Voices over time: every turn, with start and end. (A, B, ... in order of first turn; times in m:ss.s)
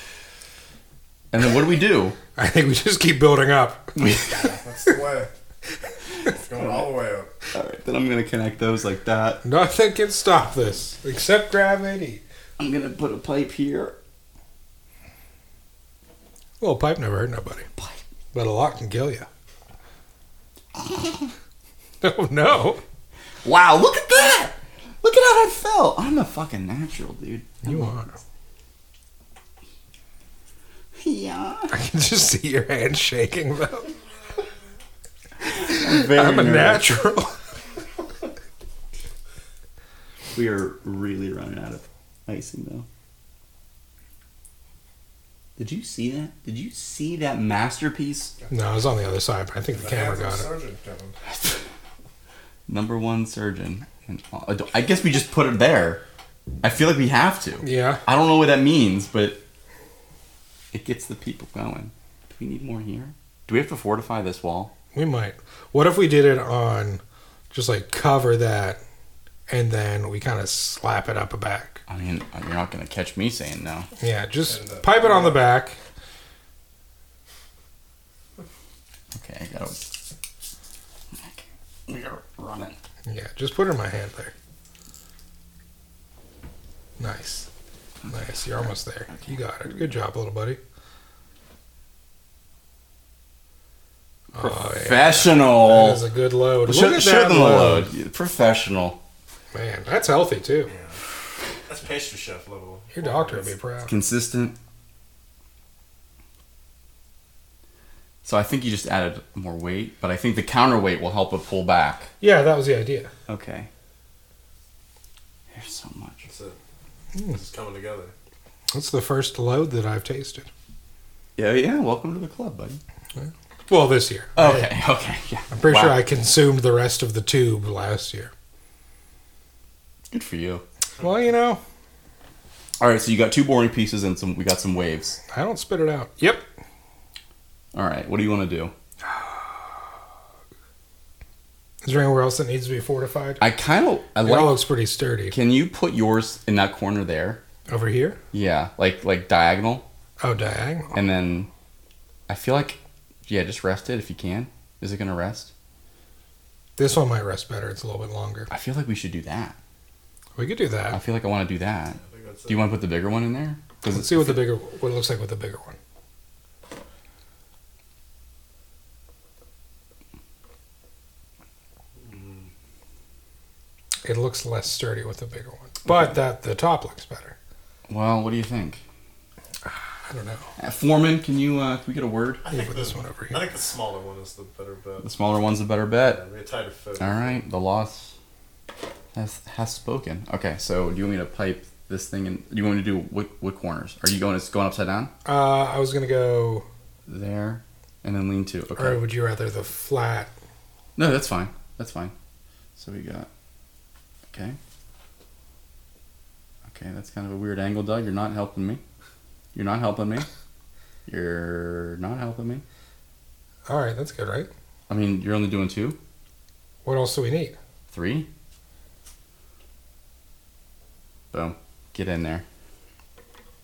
0:01.3-0:02.2 A
0:02.4-0:04.0 B
0:04.0-0:04.6 A
0:04.4-0:05.3 C
0:06.3-0:07.3 C
0:06.6-0:06.8 A
0:07.5-0:09.4 A
0:09.4-0:12.2 B
0:12.6-0:14.0 A
0:16.6-0:17.7 B
0:18.3-0:19.3 B
0:20.8-0:21.3 A
0:22.0-0:22.8 B
0:23.4-0:27.9 A
0:27.6-0:28.2 B
0:31.0-0:31.8 A
0:31.7-0:33.9 B
0:35.4-0:36.9 A
0:35.7-0:37.4 B
0:40.4-0:42.9 A
0:45.6-0:48.3 A
0:48.5-0:50.5 B
0:49.7-0:51.2 C
0:51.3-0:51.6 A
0:52.7-0:56.0 A
0:56.6-0:59.4 A
0:57.6-0:58.0 B
1:00.7-1:04.7 A
1:04.9-1:08.8 B
1:09.5-1:11.8 B
1:11.9-1:13.9 A
1:14.0-1:15.8 B
1:14.5-1:15.4 C
1:19.1-1:19.8 A
1:21.1-1:22.8 A
1:23.1-1:24.3 B
1:27.0-1:27.5 B
1:28.0-1:29.3 A
1:28.1-1:30.6 B
1:34.3-1:37.9 B
1:34.4-1:36.0 A
1:36.6-1:39.0 A
1:39.5-1:40.7 B
1:40.7-1:41.0 C
1:41.7-1:43.5 C
1:42.9-1:43.9 B
1:43.9-1:44.6 A
1:48.2-1:52.1 A
1:52.2-1:53.1 B
1:53.3-1:53.7 A
1:55.5-1:56.3 A
1:56.3-1:56.6 C
1:57.3-1:58.1 C
1:58.7-2:00.5 B
2:01.4-2:02.8 A
2:03.2-2:04.7 B
2:04.4-2:06.0 A
2:05.5-2:08.3 B
2:10.1-2:10.6 A
2:11.0-2:11.6 B
2:12.8-2:15.2 A
2:15.3-2:16.5 B
2:17.7-2:18.7 A
2:19.1-2:19.4 B
2:21.8-2:23.4 B
2:23.4-2:24.6 A
2:24.2-2:25.4 B
2:25.3-2:27.4 A
2:27.7-2:28.2 B
2:28.3-2:29.9 A
2:30.2-2:31.0 B
2:30.9-2:31.5 A
2:32.3-2:35.5 A
2:36.8-2:38.5 B
2:38.5-2:39.6 A
2:40.4-2:41.0 B
2:40.9-2:44.5 A
2:42.0-2:42.7 C
2:43.9-2:45.8 B
2:52.0-2:52.5 C
2:54.0-2:57.4 B
2:57.9-2:58.8 A
3:00.1-3:00.5 B
3:00.6-3:02.4 A
3:02.4-3:05.1 C
3:02.5-3:03.5 B
3:05.0-3:06.2 A
3:06.0-3:07.4 C
3:07.0-3:08.1 A
3:09.1-3:15.1 A
3:15.2-3:16.7 B
3:17.1-3:19.0 A
3:18.8-3:20.3 B
3:21.0-3:22.1 A
3:22.8-3:23.3 A
3:24.3-3:24.6 A
3:26.7-3:28.8 A
3:29.5-3:30.3 A
3:31.1-3:32.6 A
3:33.7-3:34.5 B
3:34.9-3:36.0 A
3:36.8-3:37.6 B
3:37.9-3:38.3 A
3:41.3-3:42.4 A